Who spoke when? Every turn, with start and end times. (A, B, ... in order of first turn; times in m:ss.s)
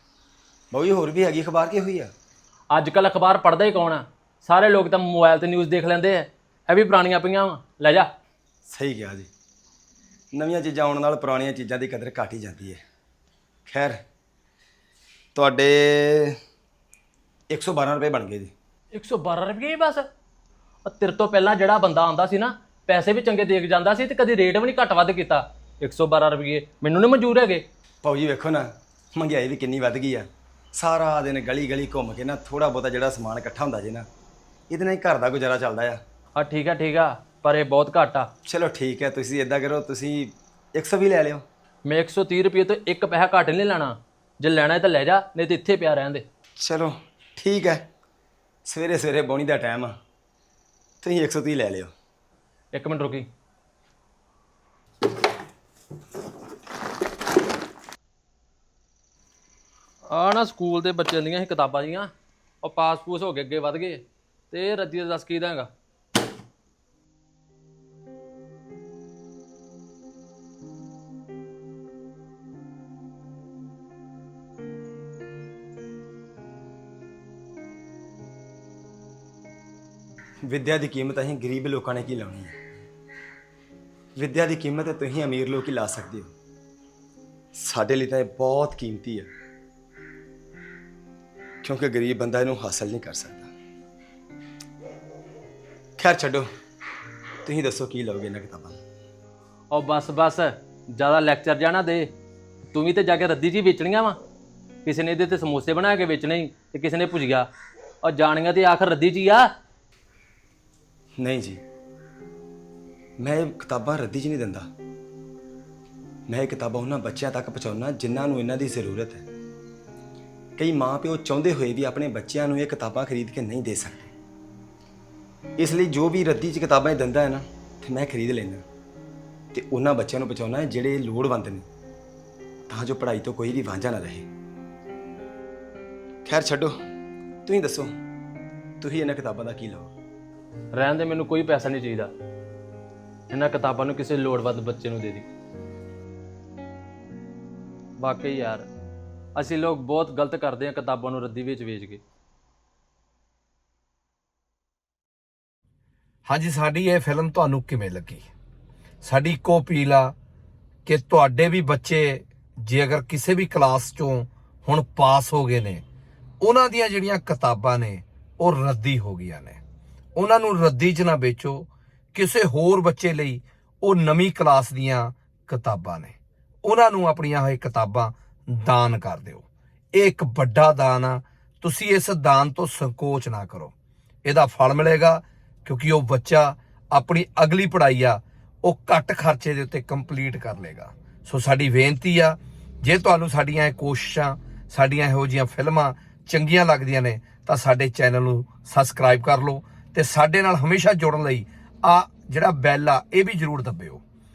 0:00.7-0:02.1 A
0:02.7-0:08.1 B
0:08.7-0:09.3 A
0:10.3-0:12.8 A
0:13.7-0:14.0 A
0:15.4-0:16.4 A
0:17.5-0:18.5 A
0:18.9-0:20.1 B
0:20.8-0:27.6 B
0:28.0-0:34.1 A
0:34.7-0:36.0 A
0:36.4-0:38.3 B
0:38.5-0:41.4 A
0:41.8-0:46.2 B
0:46.6-0:47.9 A
0:48.7-0:50.0 A
0:51.0-0:51.9 A
0:52.7-0:53.3 B
1:00.1-1:02.1 B
1:02.6-1:05.7 B
1:20.4-1:22.5 A
1:24.2-1:26.3 A
1:27.6-1:29.3 A
1:31.6-1:33.5 A
1:36.0-1:36.5 A
1:37.4-1:38.8 A
1:39.7-1:42.1 B
1:42.7-1:44.2 B
1:44.8-1:47.5 B
1:48.0-1:49.5 B
1:51.2-1:51.6 A
1:53.2-1:54.7 A
1:56.3-1:59.2 A
2:00.6-2:04.1 A
2:05.6-2:08.6 A
2:09.5-2:11.6 A
2:12.7-2:14.3 A
2:16.3-2:16.8 A
2:17.4-2:17.9 A
2:18.8-2:19.9 A
2:20.7-2:22.1 B
2:23.3-2:25.3 B
2:28.0-2:28.7 B
2:29.4-2:32.0 B
2:36.3-2:38.3 C
2:39.0-2:40.1 C
2:40.9-2:45.8 C
2:46.4-2:49.6 C
2:50.2-3:03.7 C
3:04.3-3:24.0 C